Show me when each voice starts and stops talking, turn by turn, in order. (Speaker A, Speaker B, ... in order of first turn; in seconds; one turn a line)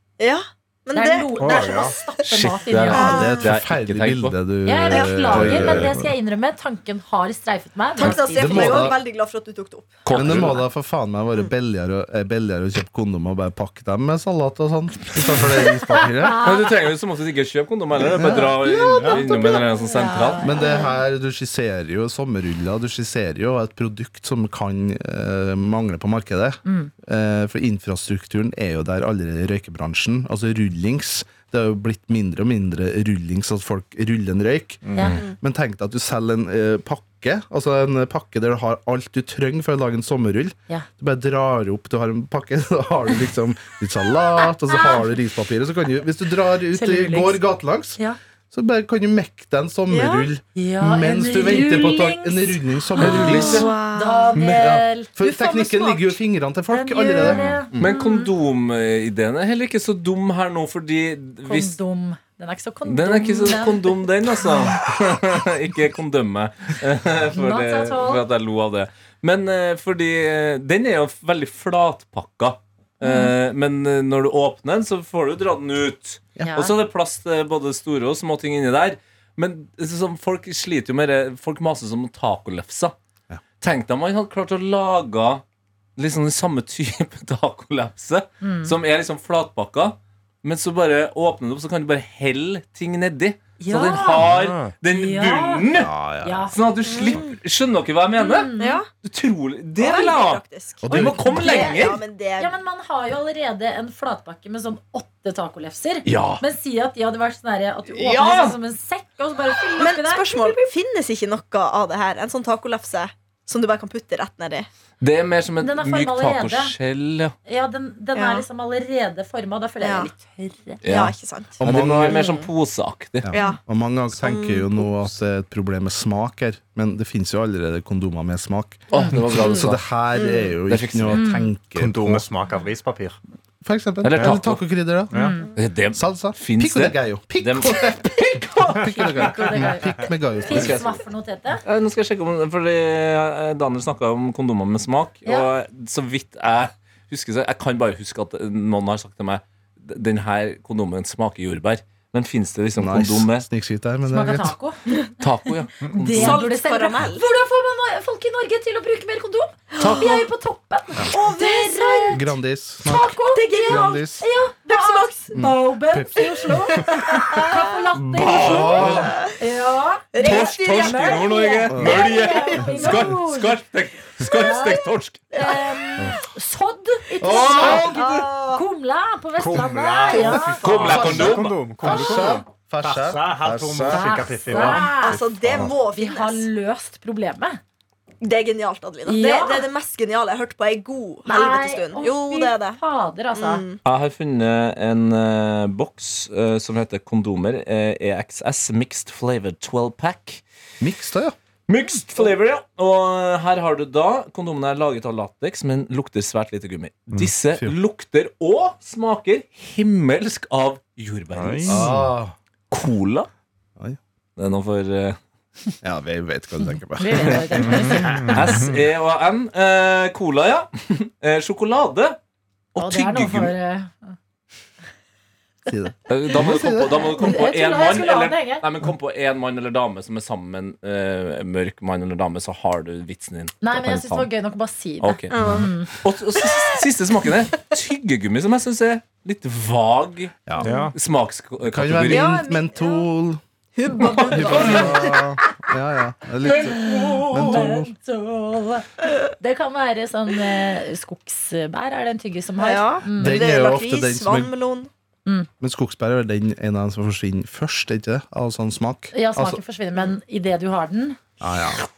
Speaker A: 0.2-2.0
Speaker B: 0.9-3.4
Speaker C: 1.4-2.0
Speaker D: 2.3-4.3
Speaker E: 2.9-6.1
Speaker A: 2.9-3.4
Speaker B: 4.7-8.9
Speaker A: 4.9-5.2
Speaker A: 8.0-10.0
Speaker E: 8.0-9.0
Speaker D: 10.1-10.6
Speaker E: 10.1-16.5
Speaker B: 10.2-10.6
Speaker B: 16.1-16.7
Speaker D: 16.4-20.6
Speaker E: 18.0-19.7
Speaker C: 18.9-19.2
Speaker B: 19.9-20.9
Speaker E: 20.4-48.0
Speaker A: 20.6-20.9
Speaker B: 26.6-26.9
Speaker C: 34.8-35.2
Speaker B: 44.7-45.0
Speaker B: 46.7-47.4
Speaker E: 48.5-53.7
Speaker A: 49.9-50.3
Speaker B: 50.5-56.2
Speaker D: 53.0-53.7
Speaker A: 53.2-54.5
Speaker E: 54.4-57.9
Speaker B: 56.7-58.3
Speaker D: 57.8-61.8
Speaker B: 61.5-64.0
Speaker D: 62.9-82.9
Speaker B: 67.3-68.2
Speaker B: 73.0-73.3
Speaker B: 76.4-76.7
Speaker D: 83.6-85.4
Speaker D: 86.0-95.9
Speaker B: 88.4-88.8
Speaker B: 93.6-94.3
Speaker C: 94.2-94.7
Speaker B: 94.9-95.7
Speaker E: 95.7-96.5
Speaker B: 96.2-96.5
Speaker D: 96.5-102.0
Speaker A: 96.9-97.4
Speaker B: 98.2-98.8
Speaker A: 98.6-98.9
Speaker A: 99.8-102.6
Speaker E: 100.8-101.4
Speaker B: 101.3-101.9
Speaker B: 102.4-110.7
Speaker D: 106.0-106.4
Speaker D: 108.0-108.6
Speaker A: 108.0-108.4
Speaker A: 109.8-114.7
Speaker D: 115.0-117.3
Speaker B: 115.6-116.8
Speaker B: 117.5-120.8
Speaker A: 118.1-118.5
Speaker A: 119.8-120.1
Speaker D: 120.8-123.3
Speaker A: 120.8-122.5
Speaker E: 121.6-122.2
Speaker E: 123.2-132.2
Speaker A: 123.3-123.6
Speaker A: 124.1-124.9
Speaker D: 128.9-129.8
Speaker A: 130.1-130.6
Speaker D: 130.7-131.3
Speaker B: 131.1-131.5
Speaker C: 131.8-133.2
Speaker E: 133.6-135.2
Speaker D: 134.0-134.6
Speaker C: 134.1-134.4
Speaker C: 135.1-135.4
Speaker B: 135.1-135.5
Speaker D: 135.6-139.3
Speaker E: 135.9-140.9
Speaker B: 138.9-141.6
Speaker D: 140.5-141.0
Speaker D: 141.7-153.5
Speaker E: 152.8-154.6
Speaker B: 154.1-154.8
Speaker D: 155.2-156.4
Speaker B: 155.9-162.3
Speaker A: 156.1-157.3
Speaker A: 159.7-160.2
Speaker D: 159.8-160.1
Speaker A: 161.1-162.2
Speaker E: 162.1-163.2
Speaker B: 162.8-173.6
Speaker A: 163.3-165.3
Speaker E: 163.7-164.2
Speaker E: 165.4-166.9
Speaker A: 166.5-167.8
Speaker E: 167.9-169.2
Speaker D: 168.2-169.1
Speaker A: 168.8-169.4
Speaker A: 170.1-173.0
Speaker D: 170.2-175.3
Speaker E: 171.7-172.1
Speaker B: 174.2-180.6
Speaker A: 175.3-175.6
Speaker E: 177.2-178.1
Speaker A: 177.3-178.6
Speaker D: 177.5-177.9
Speaker C: 179.4-185.7
Speaker A: 180.1-181.3
Speaker D: 180.6-181.8
Speaker E: 180.9-185.7
Speaker B: 183.9-187.6
Speaker A: 184.9-186.5
Speaker A: 188.2-192.8
Speaker B: 189.1-189.7
Speaker B: 191.3-193.6
Speaker A: 193.3-193.8
Speaker D: 193.8-200.4
Speaker E: 200.8-201.3
Speaker D: 201.7-211.9
Speaker C: 211.3-212.0
Speaker E: 211.7-212.3
Speaker D: 212.7-213.3
Speaker D: 214.4-215.2
Speaker E: 215.8-218.0
Speaker B: 217.0-218.6
Speaker C: 217.6-218.7
Speaker D: 218.2-222.2
Speaker D: 222.7-223.5
Speaker B: 222.8-224.1
Speaker E: 225.7-227.2
Speaker D: 226.1-234.3
Speaker B: 227.2-228.6
Speaker B: 233.6-235.9
Speaker D: 235.0-242.4
Speaker A: 235.3-235.7
Speaker E: 240.5-240.7
Speaker C: 240.6-240.9
Speaker E: 241.6-243.4
Speaker A: 242.1-243.1
Speaker A: 243.8-245.2
Speaker D: 244.0-244.9
Speaker B: 244.1-244.7
Speaker E: 244.3-247.9
Speaker B: 246.4-253.4
Speaker D: 246.5-247.7
Speaker A: 252.6-254.9
Speaker E: 253.1-254.5
Speaker E: 255.6-259.6
Speaker B: 259.1-261.2
Speaker E: 261.4-261.8